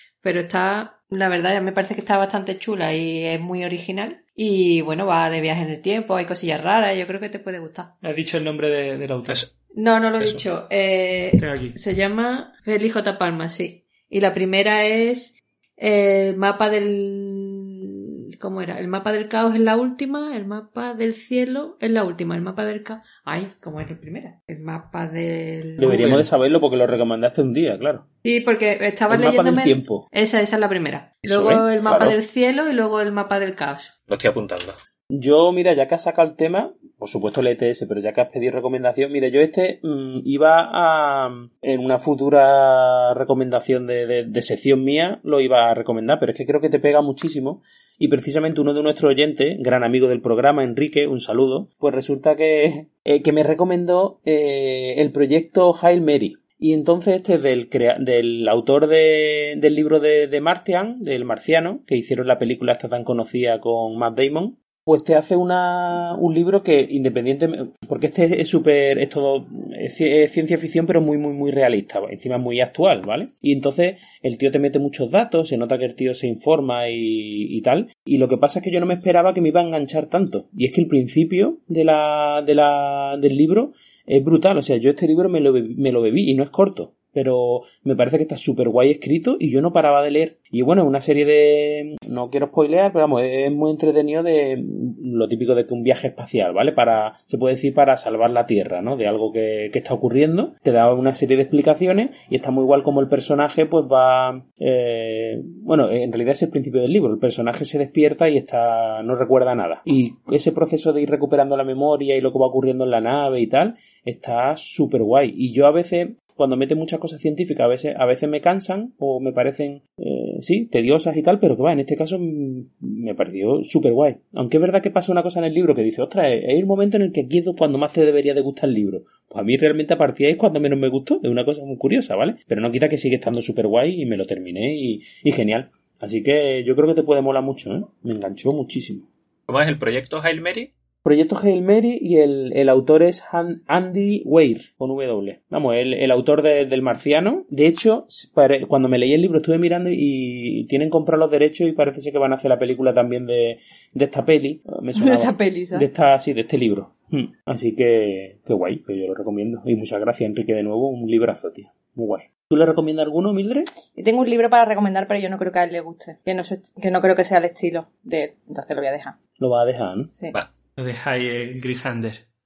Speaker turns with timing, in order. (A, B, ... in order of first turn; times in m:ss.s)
0:00.2-0:07.9 A
0:08.0-0:09.4 B
0:09.7-0:26.1 A
0:11.4-0:11.8 B
0:25.8-0:28.0 C
0:28.2-0:33.9 A
0:29.1-0:30.1 C
0:31.2-0:32.2 C
0:34.1-0:34.8 D
0:35.1-2:19.0 C
2:19.5-2:20.7 D
2:21.0-2:43.7 C
2:35.0-2:35.9 E
2:43.9-2:49.2 E
2:49.4-2:50.1 C
2:50.8-2:52.2 B